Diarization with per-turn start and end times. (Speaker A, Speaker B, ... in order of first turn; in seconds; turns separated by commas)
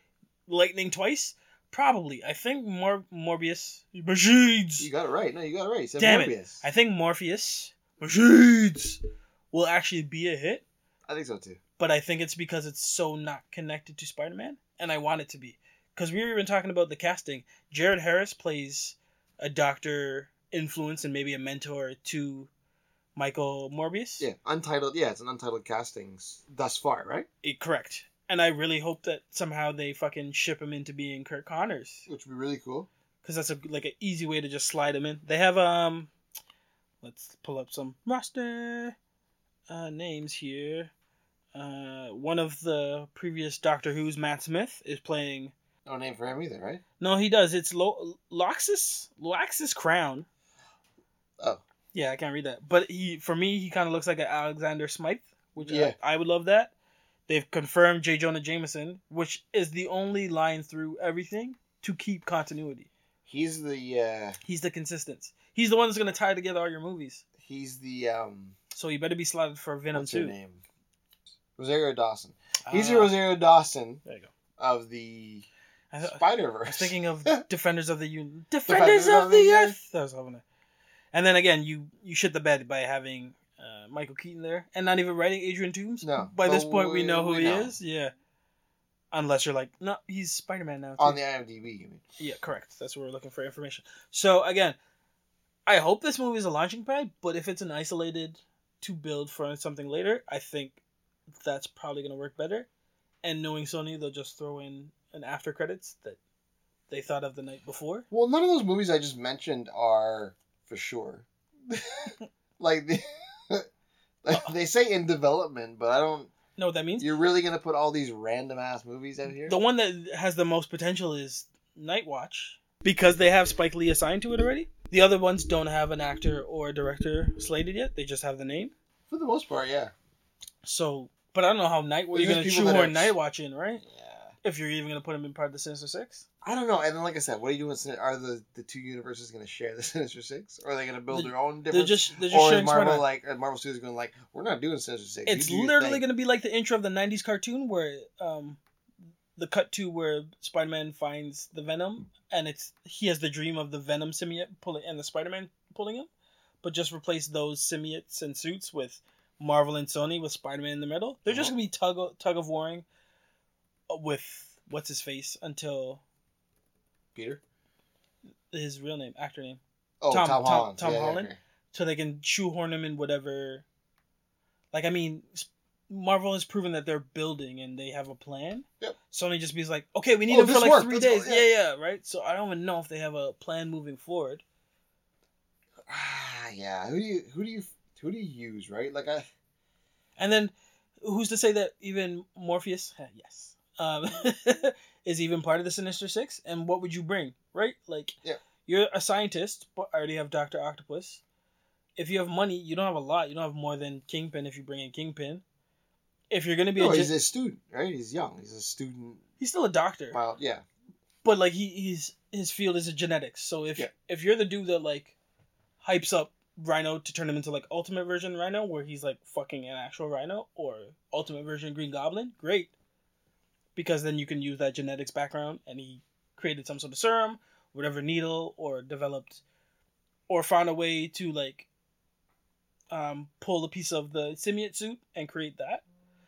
Speaker A: 0.5-4.9, Speaker B: 4.8-6.6, Speaker A: 6.0-9.0, Speaker A: 9.5-10.6, Speaker B: 11.1-11.6, Speaker A: 11.8-22.5, Speaker A: 23.1-24.3, Speaker B: 24.2-27.3, Speaker A: 27.4-32.1, Speaker B: 32.1-32.9, Speaker A: 33.2-36.1, Speaker A: 37.0-39.0, Speaker A: 39.7-40.9, Speaker A: 41.5-45.5, Speaker B: 45.8-46.8, Speaker A: 47.0-50.3, Speaker A: 51.9-56.7, Speaker B: 55.6-56.0, Speaker A: 57.3-62.9, Speaker B: 63.2-64.4, Speaker A: 64.4-67.2, Speaker B: 67.4-68.5, Speaker A: 68.7-70.3, Speaker B: 69.9-70.6, Speaker B: 71.6-74.0, Speaker A: 72.6-73.1, Speaker B: 74.6-75.5, Speaker A: 75.9-80.4, Speaker B: 76.0-77.4, Speaker B: 78.7-79.8, Speaker A: 81.1-88.1, Speaker B: 86.0-87.7, Speaker A: 89.1-91.2, Speaker B: 91.0-92.0, Speaker A: 92.2-94.8, Speaker A: 95.7-100.8, Speaker A: 101.4-102.7, Speaker A: 103.2-106.2, Speaker A: 106.9-108.0, Speaker B: 108.1-113.7, Speaker B: 114.2-116.3, Speaker A: 116.6-117.1, Speaker B: 117.0-119.6, Speaker A: 119.4-128.7, Speaker B: 129.1-129.9, Speaker A: 130.6-133.9, Speaker B: 132.1-133.1, Speaker B: 133.8-134.3, Speaker A: 134.4-136.2, Speaker B: 136.4-146.0, Speaker A: 141.1-143.0, Speaker A: 145.2-148.6, Speaker A: 149.3-156.1, Speaker A: 156.6-162.8, Speaker B: 161.3-161.5, Speaker A: 163.9-166.0, Speaker B: 167.1-167.4, Speaker A: 168.5-173.6, Speaker B: 170.0-171.3, Speaker A: 174.7-184.4, Speaker B: 180.3-181.4, Speaker B: 185.8-189.3, Speaker A: 190.2-201.2, Speaker A: 202.0-205.4, Speaker A: 206.3-207.1, Speaker B: 206.8-209.2, Speaker A: 209.4-210.2, Speaker B: 210.1-210.6, Speaker A: 211.2-215.2, Speaker A: 215.8-222.7, Speaker A: 223.7-229.4, Speaker A: 230.3-231.7, Speaker A: 232.9-235.8